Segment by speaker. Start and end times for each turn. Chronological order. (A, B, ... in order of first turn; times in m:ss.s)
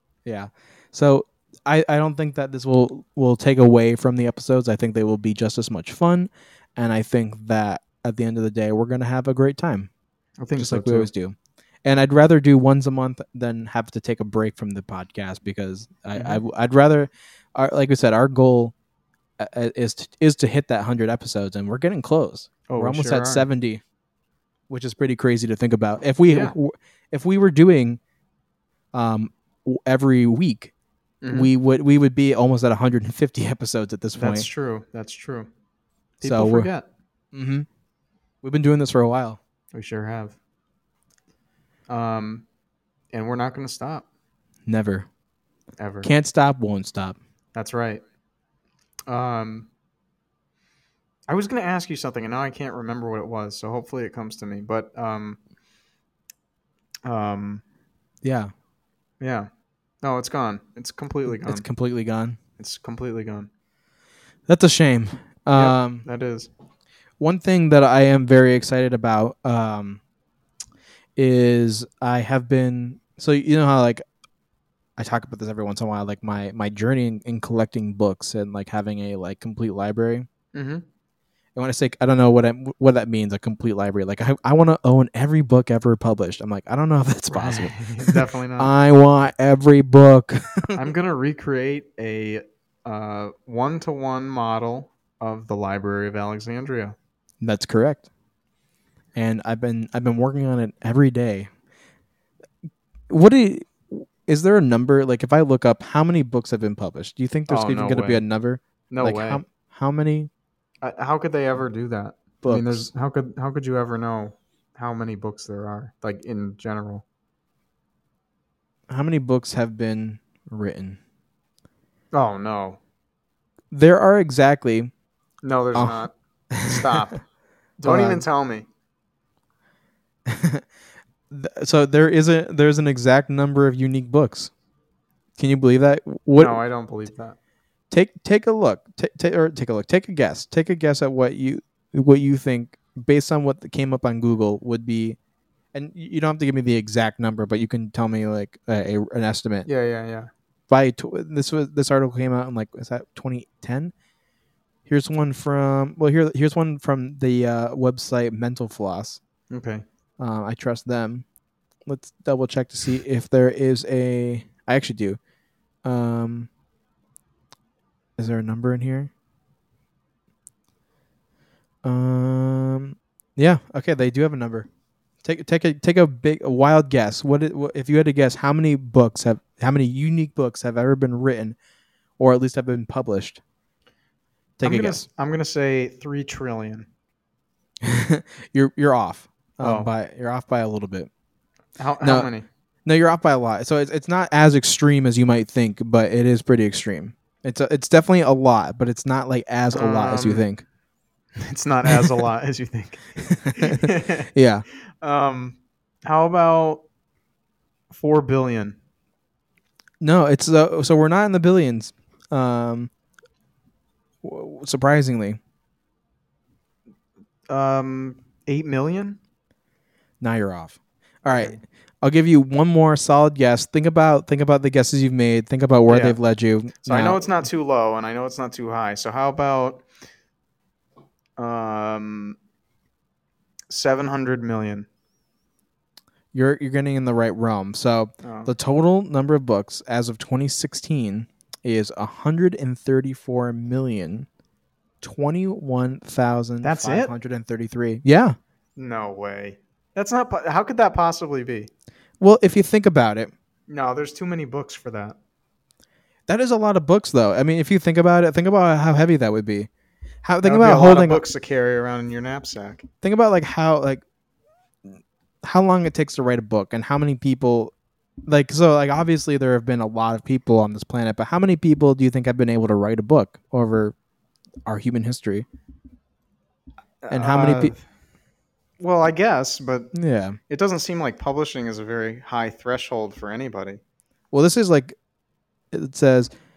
0:00.2-0:09.9 A
0:10.4-0:11.1 B
0:10.6-0:18.7 A
0:16.1-0:16.4 B
0:19.4-0:23.8 A
0:22.7-0:23.5 B
0:24.7-0:28.0 A
0:26.3-0:26.6 B
0:28.9-0:30.7 A
0:31.2-0:31.5 B
0:31.3-0:34.5 A
0:34.2-0:35.5 B
0:36.2-0:36.9 B
0:36.2-0:36.7 A
0:37.3-0:37.7 A
0:38.4-0:39.4 A
0:39.7-0:40.4 B
0:41.9-0:42.4 B
0:43.1-0:44.1 B
0:44.7-0:45.1 A
0:45.8-0:46.1 B
0:46.0-0:47.2 A
0:47.6-0:48.0 B
0:49.1-0:49.7 B
0:51.3-0:55.4 B
0:57.0-0:57.6 B
0:58.2-0:58.5 A
0:59.2-0:59.5 B
1:00.0-1:01.6 B
1:01.3-1:02.4 A
1:02.6-1:03.5 B
1:04.5-1:06.1 A
1:05.5-1:06.5 B
1:07.2-1:10.0 A
1:11.2-1:14.0 A
1:15.0-1:20.3 A
1:20.5-1:20.8 B
1:21.6-1:30.8 A
1:27.3-1:28.7 B
1:30.7-1:37.0 B
1:37.4-1:38.0 A
1:39.2-1:41.5 A
1:43.1-1:50.3 A
1:47.5-1:48.2 B
1:48.9-1:49.4 B
1:50.8-1:57.0 B
1:52.4-1:52.9 A
1:58.9-2:01.0 A
2:02.1-2:02.8 B
2:03.7-2:04.9 A
2:05.4-2:07.2 B
2:05.7-2:06.0 A
2:06.5-2:07.0 A
2:07.8-2:08.7 B
2:07.8-2:08.2 A
2:10.3-2:10.6 A
2:11.3-2:14.5 A
2:15.4-2:16.6 A
2:16.4-2:17.4 B
2:17.9-2:25.2 A
2:25.7-2:29.7 A
2:29.6-2:30.3 B
2:30.7-2:33.9 A
2:34.9-2:39.2 A
2:39.5-2:39.8 B
2:40.2-2:41.2 A
2:41.8-2:45.2 A
2:45.8-2:46.5 A
2:48.2-2:49.1 A
2:51.8-2:54.7 A
2:55.2-3:01.6 A
3:02.2-3:03.4 A
3:04.6-3:05.1 A
3:04.6-3:06.9 B
3:07.8-3:11.1 A
3:09.6-3:09.9 B
3:11.8-3:12.5 B
3:12.0-3:12.3 A
3:12.8-3:20.6 A
3:19.7-3:20.4 B
3:21.4-3:24.3 B
3:21.9-3:22.2 A
3:23.2-3:24.6 A
3:25.0-3:26.8 B
3:27.9-3:28.8 B
3:30.0-3:32.9 A
3:34.2-3:35.4 A
3:37.5-3:39.2 B
3:40.2-3:47.4 A
3:41.3-3:41.6 B
3:45.9-3:46.2 B
3:46.8-3:49.8 B
3:51.4-3:52.4 B
3:53.7-3:54.9 B
3:56.3-4:04.3 A
3:58.2-3:58.5 B
4:05.0-4:08.4 A
4:06.6-4:07.1 B
4:08.8-4:11.7 B
4:12.2-4:13.3 A
4:13.7-4:15.2 B
4:16.3-4:19.7 A
4:20.2-4:21.2 A
4:20.4-4:22.9 B
4:23.0-4:24.0 A
4:25.4-4:27.7 A
4:28.3-4:34.0 A
4:34.7-4:35.5 A
4:37.0-4:37.8 B
4:37.1-4:37.8 A
4:38.8-4:39.9 B
4:39.9-4:40.4 A
4:40.5-4:43.8 B
4:44.3-4:45.0 A
4:45.7-4:46.3 A